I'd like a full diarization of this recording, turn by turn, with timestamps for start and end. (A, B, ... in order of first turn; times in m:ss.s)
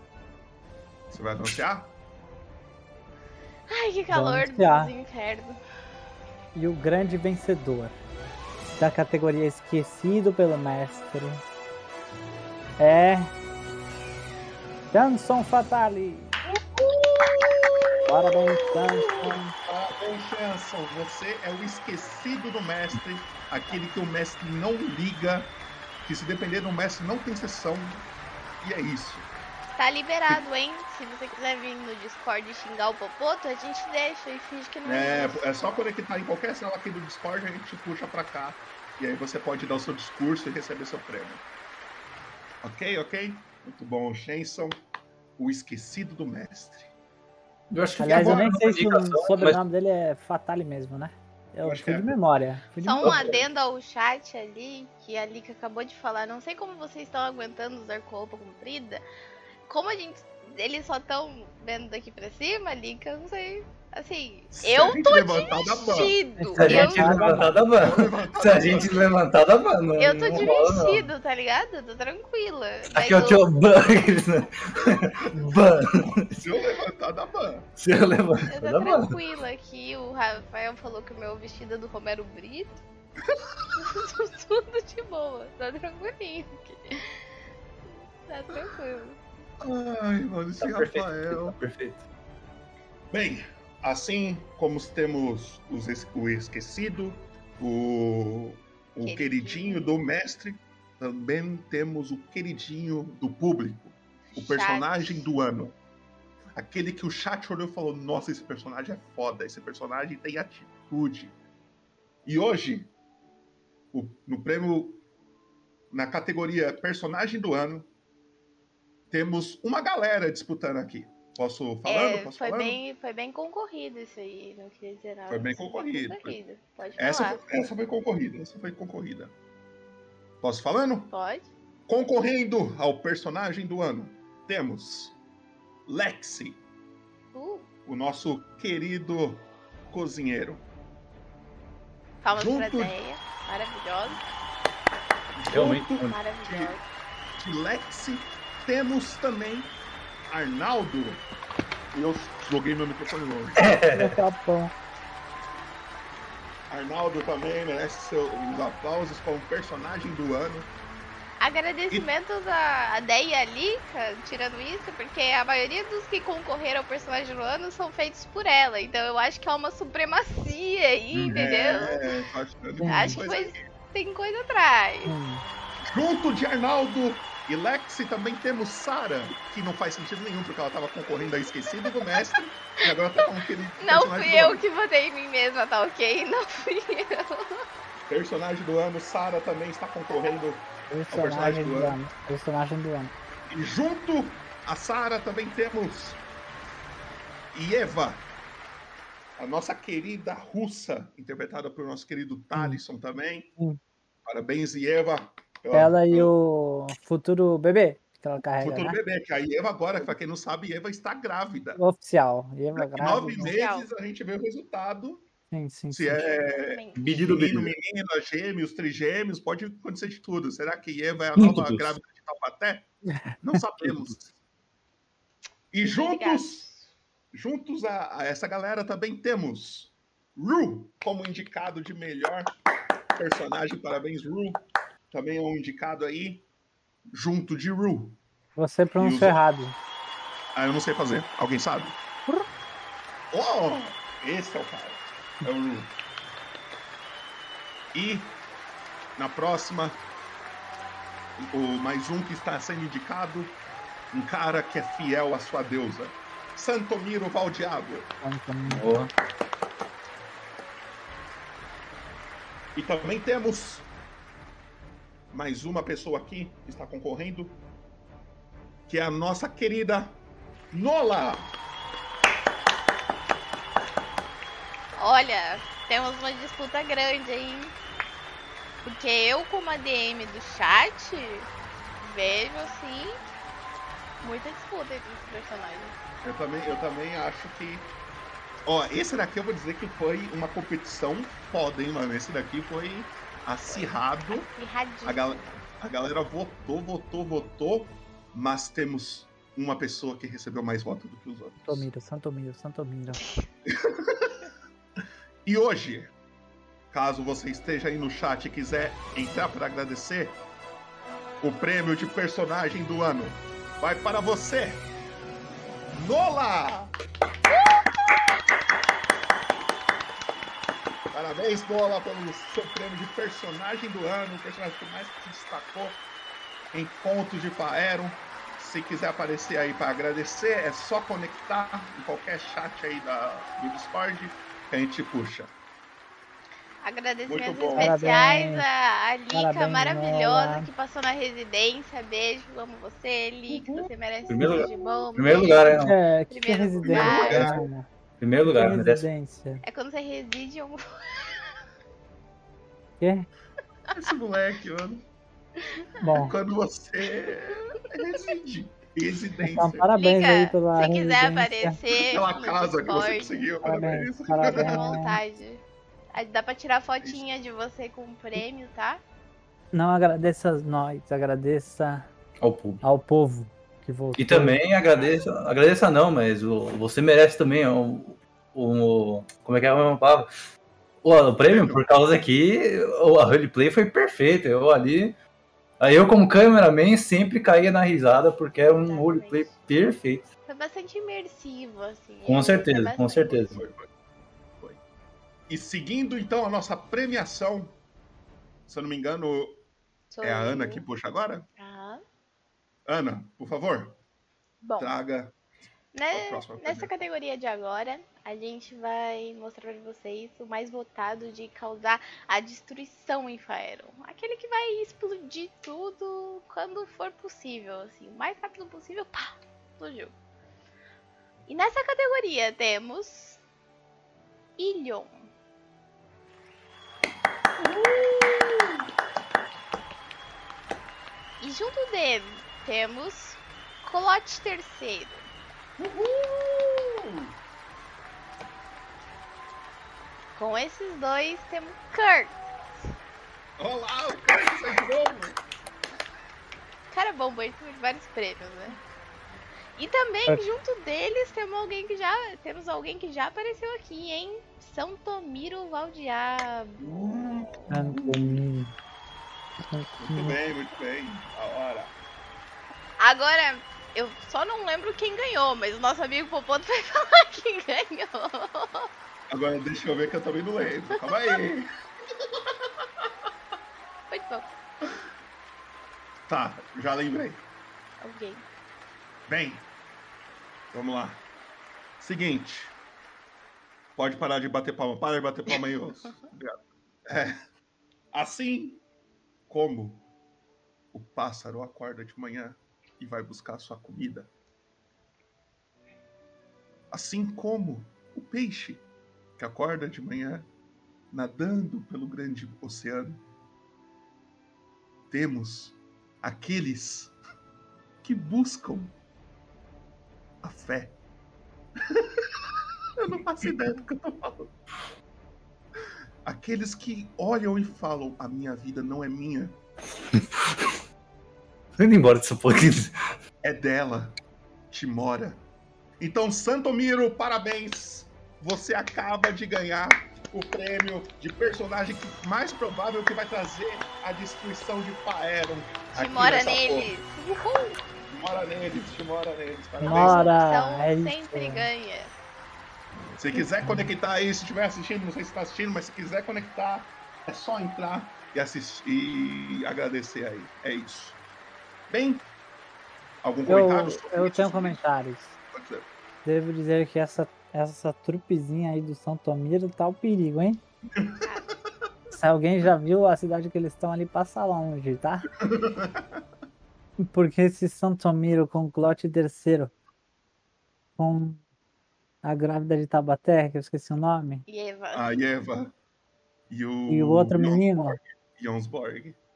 0:01.1-0:01.9 A
0:03.7-0:05.6 B
0:04.1-0:04.9 C
0:06.6-0:08.0 C
0:08.7-0:11.4 C
0:12.8-0:13.3 C
0:14.9-0:16.4 C
0:16.6-0:25.5 A
0:18.1-0:19.5 C
0:26.0-0:28.1 A
0:28.6-0:29.3 A
0:29.8-0:35.9 B
0:34.8-0:41.4 A
0:42.6-0:44.8 A
0:45.4-0:46.9 A
0:47.7-0:49.6 D
0:48.0-0:53.2 C
0:51.6-0:52.2 A
0:52.8-0:59.0 B
0:59.7-1:07.3 B
1:04.5-1:06.2 A
1:06.4-1:07.6 C
1:06.6-1:11.1 D
1:07.7-1:09.2 A
1:10.0-1:13.5 B
1:13.0-1:16.4 D
1:14.8-1:15.4 A
1:16.3-1:17.7 A
1:17.8-1:19.2 D
1:18.5-1:22.8 B
1:23.8-1:27.0 B
1:28.3-1:29.2 B
1:29.6-1:31.6 A
1:30.6-1:32.0 D
1:33.1-1:45.8 A
1:39.0-1:39.9 B
1:44.3-1:45.3 B
1:46.6-1:51.4 A
1:52.3-1:52.9 A
1:53.9-1:55.0 A
1:55.9-1:57.9 A
1:59.1-2:02.8 A
2:01.9-2:07.4 B
2:05.3-2:06.4 A
2:07.0-2:09.3 A
2:10.4-2:11.1 A
2:11.1-2:11.5 B
2:11.9-2:15.2 A
2:15.9-2:16.6 A
2:17.3-2:17.7 B
2:17.9-2:20.6 A
2:22.2-2:24.2 B
2:22.3-2:23.0 A
2:25.4-2:26.8 A
2:25.5-2:26.2 D
2:26.1-2:26.8 B
2:27.4-2:29.7 A
2:30.3-2:31.2 A
2:31.9-2:33.8 A
2:33.6-2:34.2 D
2:33.9-2:34.7 C
2:36.7-2:40.7 A
2:41.4-2:52.2 B
2:51.4-2:53.6 A
2:52.8-2:53.2 C
2:52.9-2:55.1 B
2:55.0-2:55.4 C
2:55.9-3:04.6 A
3:03.8-3:07.6 B
3:08.1-3:12.0 A
3:10.9-3:13.1 C
3:13.5-3:16.2 A
3:17.5-3:18.3 A
3:19.4-3:23.5 A
3:22.6-3:22.8 C
3:24.3-3:26.3 A
3:25.7-3:29.0 C
3:28.6-3:31.8 A
3:31.8-3:33.5 C
3:32.7-3:35.2 A
3:33.4-3:33.9 B
3:35.5-3:36.2 C
3:35.9-3:44.4 A
3:36.2-3:37.0 B
3:37.0-3:37.8 D
3:41.4-3:41.9 D
3:45.7-3:46.7 A
3:45.9-3:46.9 B
3:47.3-3:52.5 A
3:53.2-3:56.5 A
3:57.1-3:58.2 A
3:58.6-3:59.8 C
3:59.0-3:59.4 A
4:00.6-4:02.0 A
4:03.3-4:05.9 A
4:07.9-4:08.4 A
4:09.2-4:10.0 A
4:11.4-4:13.6 A
4:14.1-4:18.1 A
4:18.2-4:18.9 C
4:18.7-4:19.1 D
4:22.8-4:23.9 A
4:25.3-4:27.6 A
4:28.9-4:30.2 A
4:30.7-4:31.5 A
4:35.0-4:37.7 B
4:38.8-4:41.5 B
4:42.0-4:43.2 B
4:44.2-4:46.0 B
4:46.2-4:47.9 A
4:48.7-4:54.5 A
4:53.7-4:55.6 B
4:55.0-5:01.9 A
5:01.6-5:03.2 C
5:03.7-5:04.4 A
5:05.4-5:06.1 A
5:06.9-5:10.4 A
5:11.4-5:14.9 A
5:15.9-5:16.9 A
5:21.1-5:26.0 A
5:26.7-5:35.5 A
5:36.8-5:47.6 B
5:37.3-5:38.0 A
5:37.8-5:38.6 C
5:39.3-5:40.7 C
5:43.5-5:43.9 A
5:44.3-5:46.0 D
5:44.4-5:45.0 A
5:45.7-5:47.9 C
5:46.8-5:47.7 A
5:48.2-5:49.0 D
5:48.4-5:49.6 C
5:49.6-5:51.5 B
5:53.0-5:53.3 C
5:53.9-5:55.0 A
5:55.6-5:56.3 B
5:56.0-5:56.4 C
5:56.2-5:59.9 A
5:59.5-6:01.8 C
6:00.0-6:03.5 B
6:02.1-6:05.0 A
6:03.6-6:05.2 C
6:04.5-6:09.0 B
6:09.7-6:12.1 C
6:12.4-6:12.8 D
6:12.8-6:14.6 C
6:14.2-6:20.3 D
6:21.0-6:25.2 D
6:21.5-6:21.8 A
6:25.8-6:30.3 D
6:28.8-6:29.6 B
6:30.5-6:33.4 B
6:32.3-6:33.6 D
6:33.2-6:33.9 A
6:35.5-6:37.8 A
6:38.7-6:39.6 A
6:40.1-6:40.8 B
6:40.2-6:41.5 A
6:41.6-6:42.0 B
6:42.9-6:44.0 A
6:44.6-6:44.9 B
6:44.8-6:45.4 A
6:45.9-7:00.1 B
6:46.1-6:47.0 A
7:01.5-7:03.4 B
7:04.6-7:05.3 B
7:07.6-7:08.8 A
7:11.4-7:15.3 B
7:15.8-7:17.3 A
7:20.4-7:22.5 B
7:23.6-7:25.4 A
7:26.9-7:28.8 B
7:29.8-7:36.8 B
7:36.8-7:38.4 A
7:37.7-7:38.7 C
7:39.7-7:40.4 C
7:40.0-7:41.9 A
7:43.0-7:48.9 B
7:49.3-7:51.7 A
7:51.0-7:51.4 B
7:54.1-7:54.5 B
7:56.3-7:57.4 A
7:58.0-7:58.4 B
7:59.3-7:59.7 A
8:00.7-8:01.2 A
8:02.0-8:02.8 A
8:04.0-8:07.4 A
8:08.1-8:08.8 A
8:09.5-8:10.1 A
8:10.9-8:14.3 A
8:16.9-8:18.8 A
8:19.4-8:20.5 A
8:21.1-8:23.2 A
8:25.1-8:27.2 A
8:28.0-8:28.9 A
8:30.4-8:31.0 A
8:33.0-8:34.5 A
8:36.2-8:39.6 A
8:40.1-8:40.8 D
8:41.8-8:42.9 D
8:43.4-8:44.2 A
8:44.7-8:45.4 A
8:46.0-8:56.9 A
8:55.9-8:57.8 B
8:58.0-9:00.3 A
8:59.8-9:01.7 C
8:59.8-9:02.2 B
9:03.2-9:11.2 A
9:03.6-9:03.9 C
9:11.9-9:12.2 A
9:13.2-9:14.8 A
9:13.5-9:15.4 C
9:15.5-9:15.9 A
9:16.2-9:20.6 C
9:21.0-9:21.2 A
9:21.2-9:21.5 B
9:22.1-9:25.3 C
9:25.4-9:26.2 A
9:27.0-9:29.7 C
9:31.0-9:31.4 C
9:32.2-9:34.4 C
9:34.5-9:35.1 B
9:34.9-9:35.7 A
9:36.5-9:39.2 A
9:36.9-9:38.0 C